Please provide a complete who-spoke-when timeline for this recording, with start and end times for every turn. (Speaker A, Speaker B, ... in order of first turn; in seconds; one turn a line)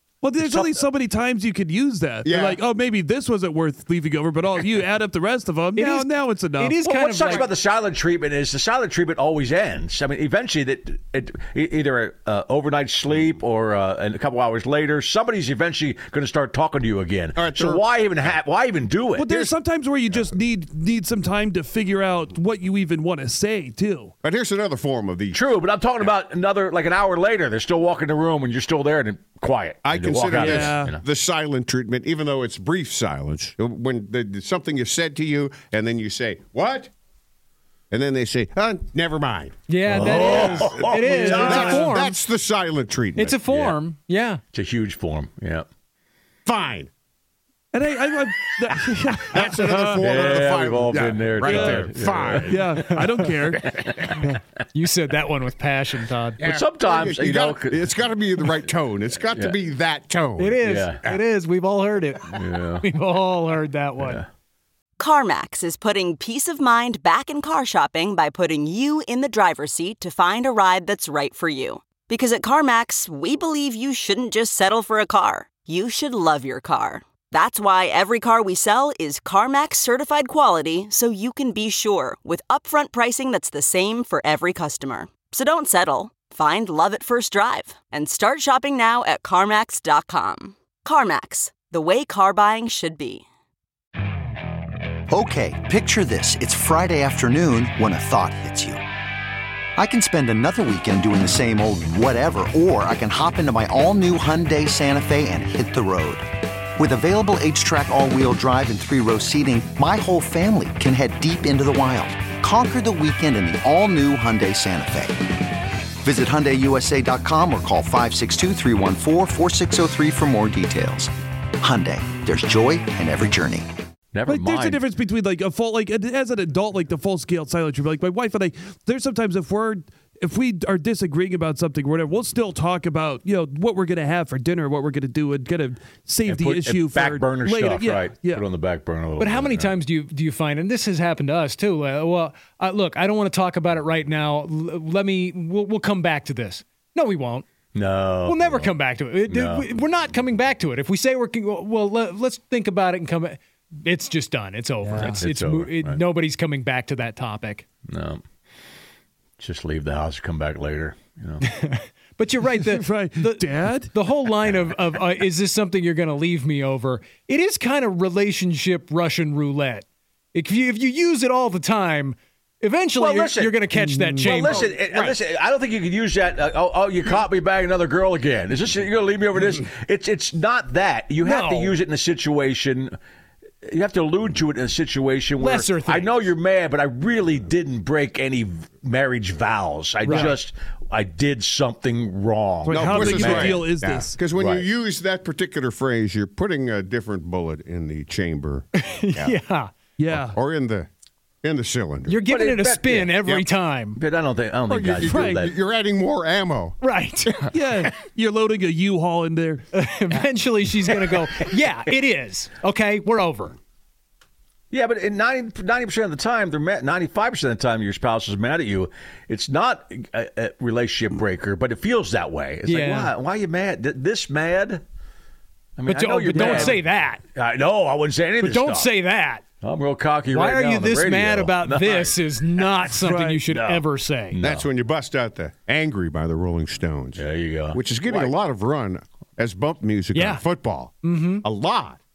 Speaker A: 0.2-6.8
Speaker B: 2.2-2.6
Speaker C: 5.8-7.5
Speaker D: 6.8-19.2
Speaker B: 17.4-17.9
Speaker A: 19.2-24.1
Speaker B: 19.2-19.6
Speaker B: 24.2-25.5
Speaker D: 25.3-31.0
Speaker B: 29.9-36.9
Speaker A: 30.3-30.9
Speaker B: 37.9-43.4
Speaker C: 39.7-42.2
Speaker D: 39.9-41.9
Speaker A: 41.2-41.7
Speaker C: 43.2-44.4
Speaker D: 43.5-43.8
Speaker D: 44.5-45.7
Speaker B: 46.5-46.9
Speaker A: 47.7-50.1
Speaker B: 49.3-52.6
Speaker D: 50.0-52.6
Speaker A: 51.4-51.9
Speaker A: 52.4-54.2
Speaker D: 53.6-54.3
Speaker C: 54.7-56.4
Speaker D: 56.4-57.9
Speaker B: 56.4-60.6
Speaker D: 59.3-59.6
Speaker C: 60.4-64.2
Speaker D: 60.6-61.1
Speaker D: 62.3-62.9
Speaker D: 64.0-64.2
Speaker E: 65.0-93.3
Speaker F: 95.1-98.8
Speaker F: 99.8-115.4
Speaker F: 116.0-123.7
Speaker D: 124.1-124.8
Speaker A: 124.3-138.4
Speaker D: 136.2-139.7
Speaker C: 139.2-147.4
Speaker D: 147.7-148.7
Speaker C: 148.2-157.7
Speaker D: 149.3-149.8
Speaker A: 154.8-155.2
Speaker D: 155.0-156.0
Speaker D: 157.9-158.2
Speaker D: 159.4-161.4
Speaker C: 161.4-174.7
Speaker A: 162.6-163.9
Speaker D: 173.0-173.6
Speaker A: 173.8-174.3
Speaker D: 174.2-182.9
Speaker B: 174.7-175.2
Speaker C: 181.2-181.8
Speaker D: 183.6-193.6
Speaker C: 185.4-186.3
Speaker C: 190.1-190.4
Speaker A: 192.7-194.2
Speaker B: 192.7-199.4
Speaker D: 194.3-194.7
Speaker C: 198.8-199.7
Speaker A: 200.0-200.3
Speaker B: 200.1-200.9
Speaker B: 201.4-202.2
Speaker C: 202.1-204.0
Speaker D: 202.3-203.1
Speaker D: 203.9-205.5
Speaker B: 204.7-207.5
Speaker A: 205.0-205.4
Speaker C: 206.8-207.3
Speaker A: 207.5-209.6
Speaker C: 209.7-213.6
Speaker D: 214.7-224.8
Speaker C: 222.7-223.1
Speaker D: 225.8-228.9
Speaker C: 225.9-227.2
Speaker A: 226.4-226.7
Speaker C: 228.4-229.4
Speaker D: 229.6-232.7
Speaker C: 230.3-234.4
Speaker A: 232.9-233.4
Speaker D: 233.4-234.7
Speaker B: 234.4-242.0
Speaker D: 237.2-238.3
Speaker C: 240.1-240.4
Speaker C: 241.0-241.4